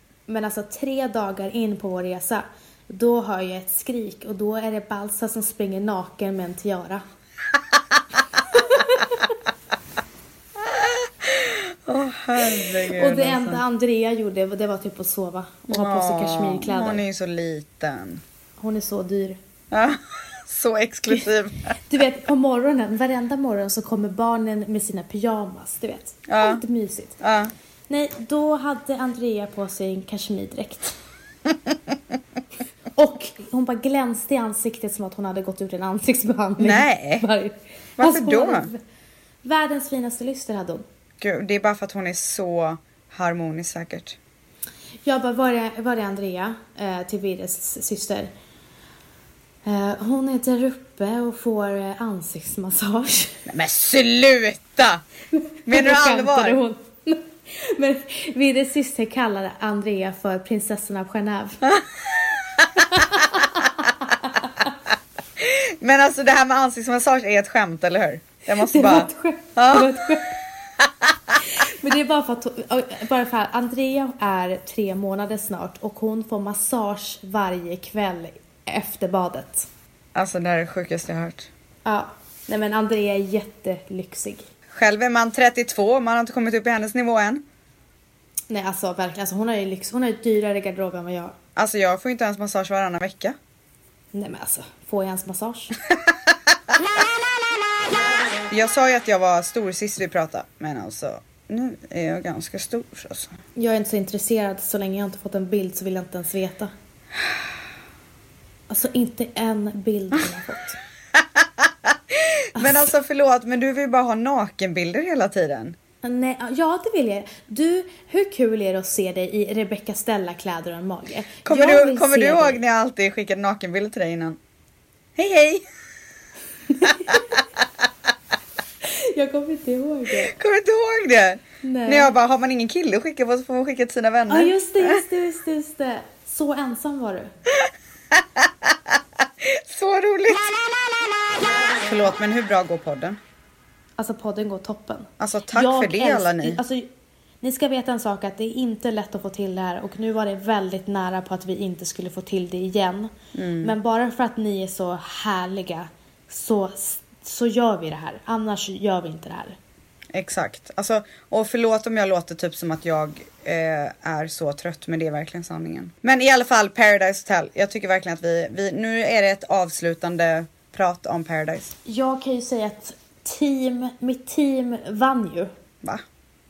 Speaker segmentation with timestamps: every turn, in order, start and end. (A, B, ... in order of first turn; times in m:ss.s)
0:00.3-0:07.0 A
0:08.5-0:09.2 A
0:10.6-0:13.6 B
0:12.4-0:17.0 A
0:15.7-0:18.2 B
0:18.6-0:19.4 A
0:19.7-0:21.8 B
0:21.8-0:27.2 A
0:26.3-0:26.6 B
0:27.2-0:27.5 B
0:27.9-0:31.0 A
0:32.9-0:38.8 A
0:36.6-0:37.3 B
0:38.0-0:38.7 B
0:39.4-0:40.8 A
0:41.2-0:44.2 B
0:45.0-0:48.3 A
0:49.6-0:53.4 A
0:53.5-0:55.0 B
0:55.3-1:01.6 A
0:55.6-0:56.6 B
1:01.7-1:03.4 B
1:02.8-1:04.5 A
1:05.4-1:10.0 B
1:08.5-1:10.4 A
1:11.4-1:19.7 A
1:20.1-1:21.5 B
1:21.8-1:24.5 A
1:24.7-1:27.4 B
1:28.5-1:31.4 A
1:31.6-1:33.4 B
1:34.1-1:35.7 A
1:38.5-1:43.3 B
1:43.6-1:46.7 A
1:48.7-1:50.8 A
1:51.2-1:55.8 B
1:52.5-1:52.9 A
1:56.0-2:02.6 A
2:01.4-2:04.4 B
2:05.2-2:05.6 B
2:06.7-2:07.3 A
2:06.8-2:07.4 B
2:08.8-2:10.3 A
2:10.2-2:15.0 B
2:11.6-2:12.1 A
2:14.3-2:17.3 A
2:18.1-2:18.7 B
2:19.4-2:20.5 B
2:21.8-2:23.2 B
2:24.0-2:26.9 A
2:25.2-2:26.6 B
2:27.4-2:39.6 A
2:33.3-2:33.7 B
2:40.1-2:51.7 B
2:51.8-2:55.5 A